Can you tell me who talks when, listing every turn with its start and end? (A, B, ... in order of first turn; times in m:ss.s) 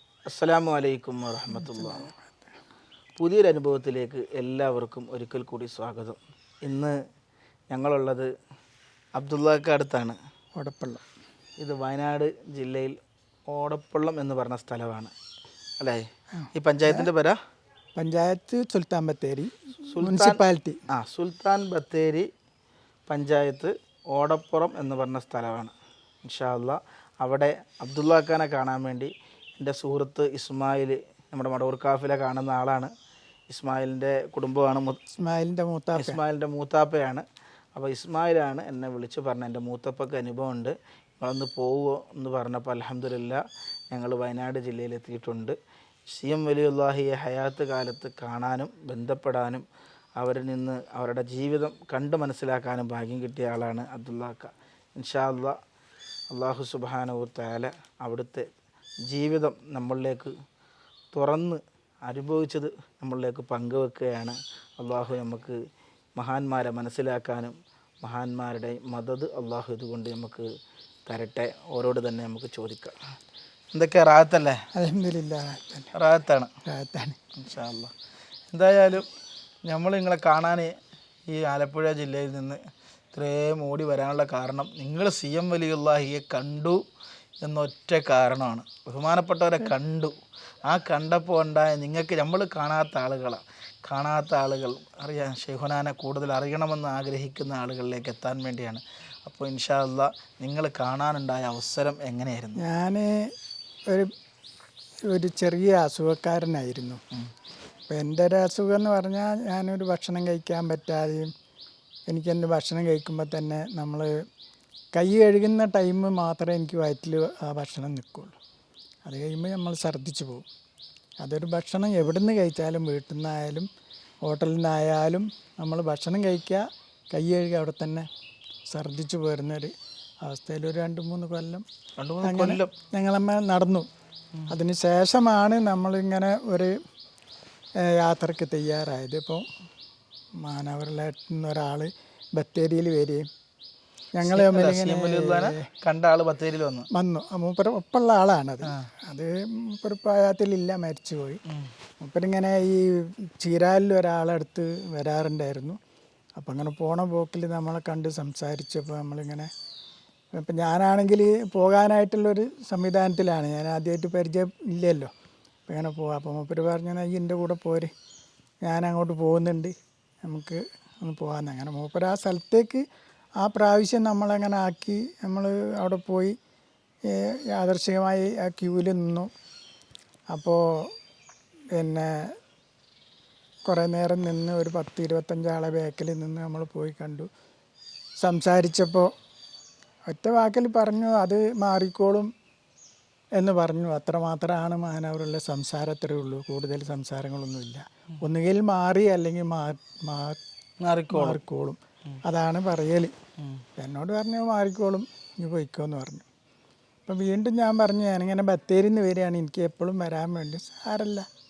0:00.3-0:02.0 A
0:01.5-0:02.5 B
0:03.2-0:06.9 A
0:07.7-0:08.3 A
0:09.2-0:10.2 A
0:10.6-0:11.0 B
0:11.6-0:13.0 A
0:13.5-0:15.1 A
0:16.3-0:17.1 B
0:16.5-0:17.4 A
0:18.0-0:20.8 B
0:19.9-0:20.4 A
0:20.9-0:22.3 A
0:23.1-0:25.7 A
0:26.2-0:32.9 A
0:33.5-0:35.0 A
0:35.1-0:36.2 B
0:36.0-0:43.4 A
0:43.9-0:45.6 A
0:46.1-0:49.6 A
0:50.2-0:55.5 A
0:56.3-0:58.5 A
0:59.1-1:00.3 A
1:01.1-1:05.6 A
1:06.2-1:10.5 A
1:11.1-1:13.0 A
1:13.7-1:14.6 A
1:14.7-1:15.9 B
1:16.0-1:16.5 A
1:16.7-1:17.2 B
1:17.4-1:17.9 A
1:18.5-1:19.1 A
1:19.7-1:20.7 A
1:21.3-1:22.6 A
1:23.1-1:26.8 A
1:27.4-1:30.1 A
1:30.7-1:42.6 A
1:42.6-1:43.3 B
1:45.1-1:47.0 B
1:47.9-1:51.3 B
1:52.1-1:54.1 B
1:54.9-1:58.4 B
1:59.0-2:00.4 B
2:01.2-2:03.7 B
2:04.2-2:08.1 B
2:08.7-2:11.6 B
2:12.0-2:12.7 A
2:12.2-2:13.9 B
2:14.5-2:16.7 B
2:17.8-2:19.4 B
2:20.4-2:23.2 B
2:24.1-2:25.6 B
2:24.2-2:26.9 A
2:26.9-2:31.4 B
2:32.0-2:35.8 B
2:36.4-2:39.5 B
2:40.3-2:45.1 B
2:45.7-2:47.9 B
2:48.6-2:52.8 B
2:53.4-2:56.4 B
2:57.1-2:59.3 B
3:00.3-3:00.9 B
3:01.7-3:02.3 B
3:03.7-3:07.3 B
3:08.2-3:09.1 B
3:10.1-3:12.3 B
3:13.4-3:20.4 B
3:20.8-3:21.4 A
3:21.1-3:23.1 B
3:23.8-3:26.2 B
3:27.0-3:31.2 B